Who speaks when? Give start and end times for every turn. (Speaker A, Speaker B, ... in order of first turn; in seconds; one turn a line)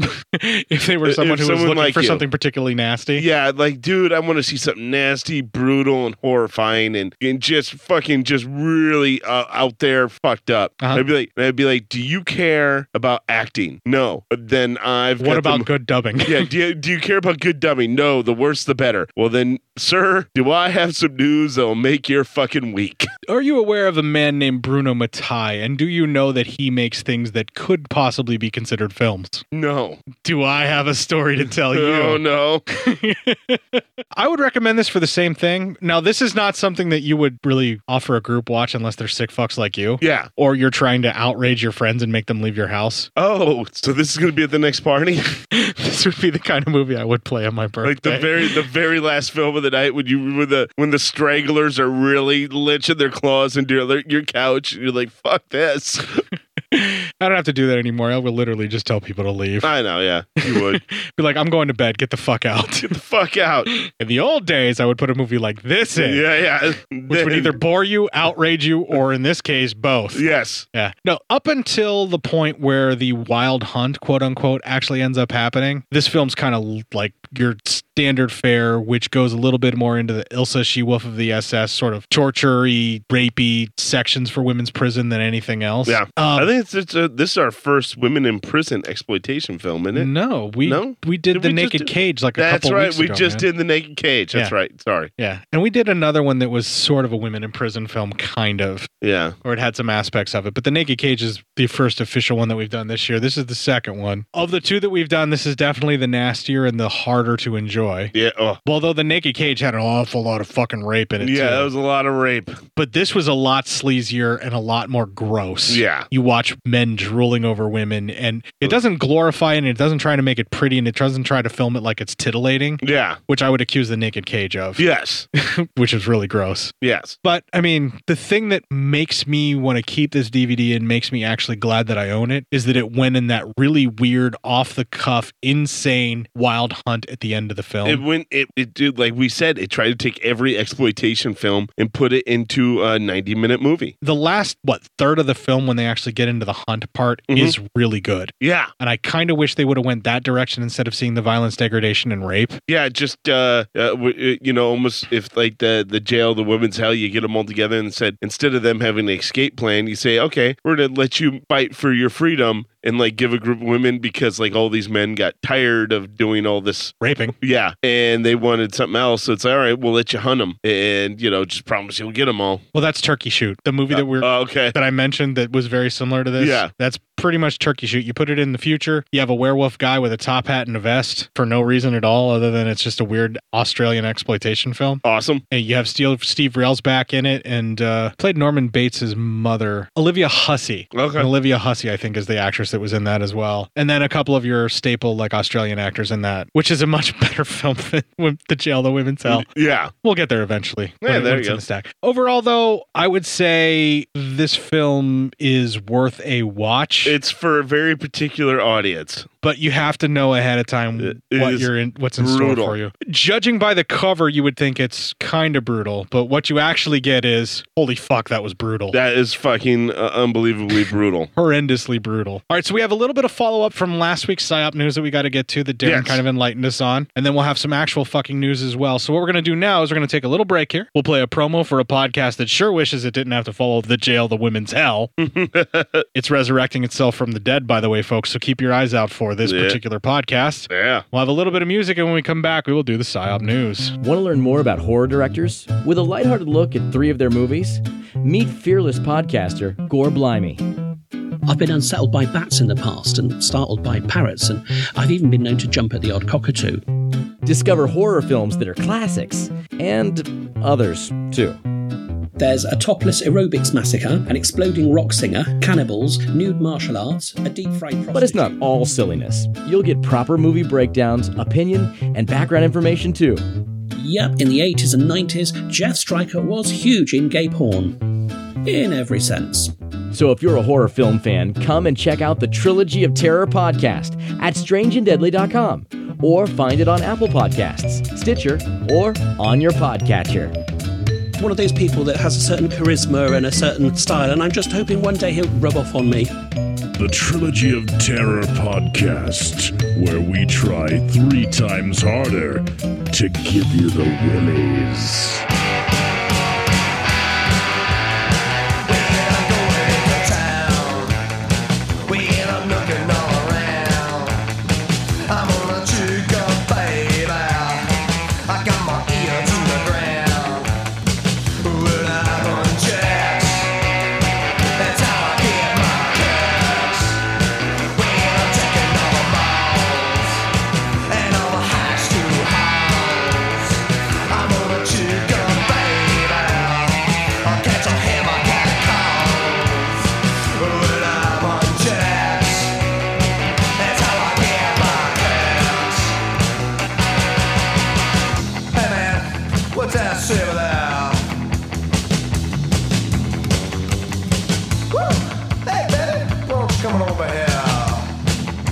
Speaker A: 0.2-3.2
Speaker B: 1.1-2.2
Speaker B: 3.2-15.7
Speaker A: 15.2-16.5
Speaker B: 16.3-23.1
Speaker A: 23.3-29.4
Speaker B: 29.5-30.0
Speaker A: 30.2-32.2
Speaker B: 31.4-32.6
Speaker A: 32.8-43.1
Speaker B: 40.0-40.3
Speaker B: 43.2-45.3
Speaker A: 45.5-48.5
Speaker B: 47.8-56.2
Speaker A: 56.7-59.7
Speaker B: 59.6-60.8
Speaker A: 60.4-62.9
Speaker B: 62.9-63.7
Speaker A: 63.7-66.2
Speaker B: 66.0-67.6
Speaker A: 67.1-86.5
Speaker B: 70.2-70.7
Speaker B: 85.9-90.1
Speaker A: 89.9-93.5
Speaker B: 90.6-95.1
Speaker A: 95.2-98.9
Speaker B: 99.0-99.4
Speaker A: 99.4-108.1
Speaker B: 108.1-108.6
Speaker A: 108.7-111.7
Speaker B: 111.2-112.6
Speaker A: 112.8-124.8
Speaker B: 115.7-116.1
Speaker B: 122.8-123.2
Speaker B: 124.8-125.3
Speaker A: 125.4-138.0
Speaker B: 126.8-127.2
Speaker B: 137.8-143.9
Speaker A: 144.0-152.6
Speaker B: 148.4-148.7
Speaker B: 152.7-172.6
Speaker A: 167.0-167.4
Speaker A: 172.7-199.5
Speaker B: 173.9-174.8
Speaker B: 176.4-176.7
Speaker B: 185.0-185.4
Speaker B: 190.9-191.3
Speaker B: 199.3-199.9
Speaker A: 200.0-207.2
Speaker B: 201.0-201.6
Speaker B: 207.1-209.3
Speaker A: 209.4-219.0
Speaker B: 211.0-212.8
Speaker B: 218.9-221.3
Speaker A: 221.4-235.1
Speaker B: 225.8-226.2
Speaker B: 235.2-236.1
Speaker A: 236.2-243.9
Speaker B: 239.4-239.8
Speaker B: 240.7-241.1
Speaker C: 244.0-250.6
Speaker D: 251.5-256.8
Speaker C: 257.4-261.6
Speaker D: 262.4-268.6
Speaker C: 268.1-273.4
Speaker D: 273.9-278.0
Speaker D: 278.6-279.7
Speaker C: 280.1-290.6
Speaker D: 291.4-296.3
Speaker E: 297.0-305.4
Speaker F: 308.9-311.2
Speaker F: 312.1-314.4
Speaker F: 315.3-317.9
Speaker F: 318.5-320.7
Speaker F: 321.6-323.7
Speaker F: 324.8-327.2
Speaker F: 328.0-330.4
Speaker F: 331.1-342.7
Speaker F: 343.8-346.1
Speaker F: 348.7-351.3
Speaker F: 354.9-358.1